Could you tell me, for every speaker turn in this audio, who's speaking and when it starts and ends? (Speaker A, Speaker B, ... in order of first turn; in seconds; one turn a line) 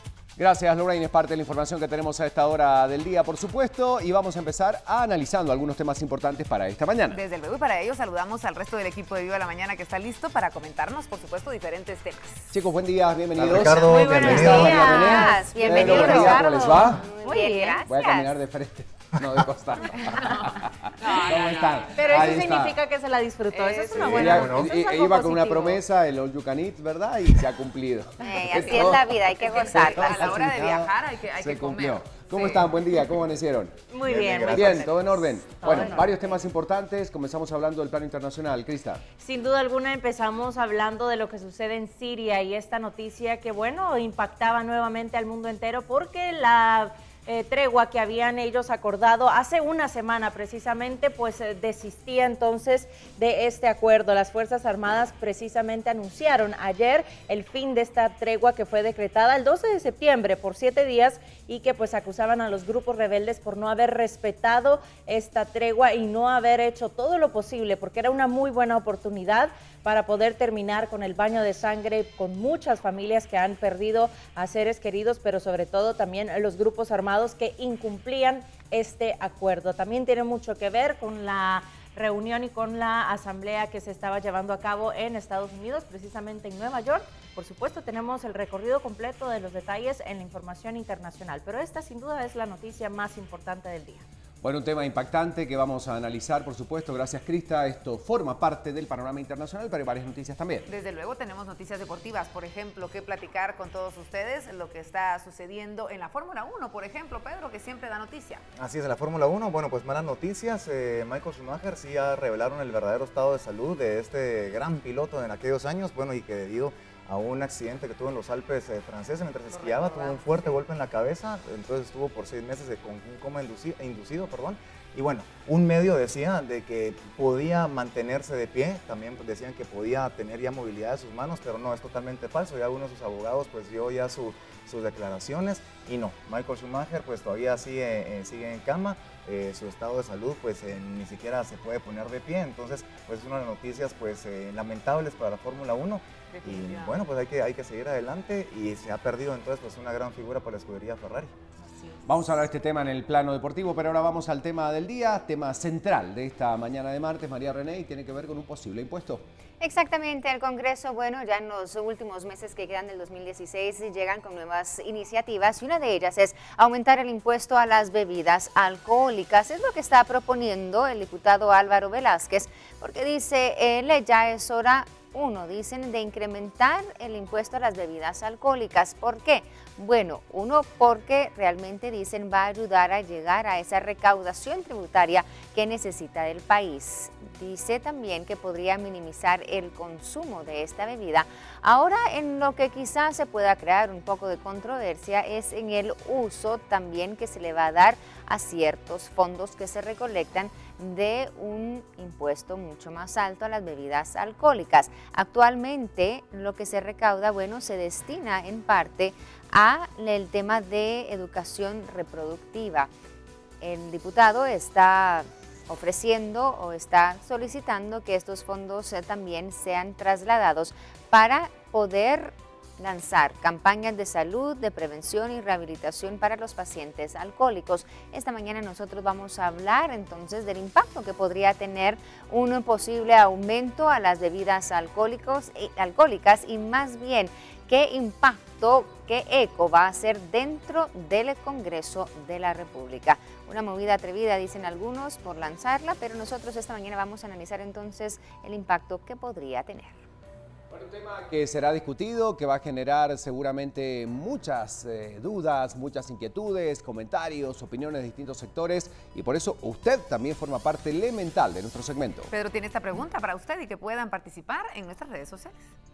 Speaker A: 0.4-7.2
Speaker B: 7.1-12.5
Speaker A: 12.5-17.1
Speaker C: 13.3-14.9
Speaker B: 13.7-14.3
Speaker D: 13.9-17.8
Speaker E: 14.4-18.4
Speaker A: 17.8-22.8
Speaker B: 21.0-22.3
Speaker D: 22.0-25.8
Speaker B: 23.5-24.4
Speaker C: 23.9-24.7
Speaker A: 24.0-33.8
Speaker E: 28.2-30.2
Speaker B: 29.4-32.7
Speaker D: 33.9-34.8
Speaker C: 34.0-34.9
Speaker A: 34.5-39.0
Speaker D: 35.6-36.0
Speaker D: 39.2-94.0
Speaker A: 94.4-100.7
Speaker B: 100.7-108.4
Speaker C: 108.6-151.3
Speaker B: 119.5-120.5
Speaker B: 146.3-147.0
Speaker B: 151.6-152.0
Speaker A: 152.1-159.2
Speaker E: 159.6-212.9
Speaker E: 213.6-250.0
Speaker A: 250.7-262.3
Speaker B: 262.3-265.7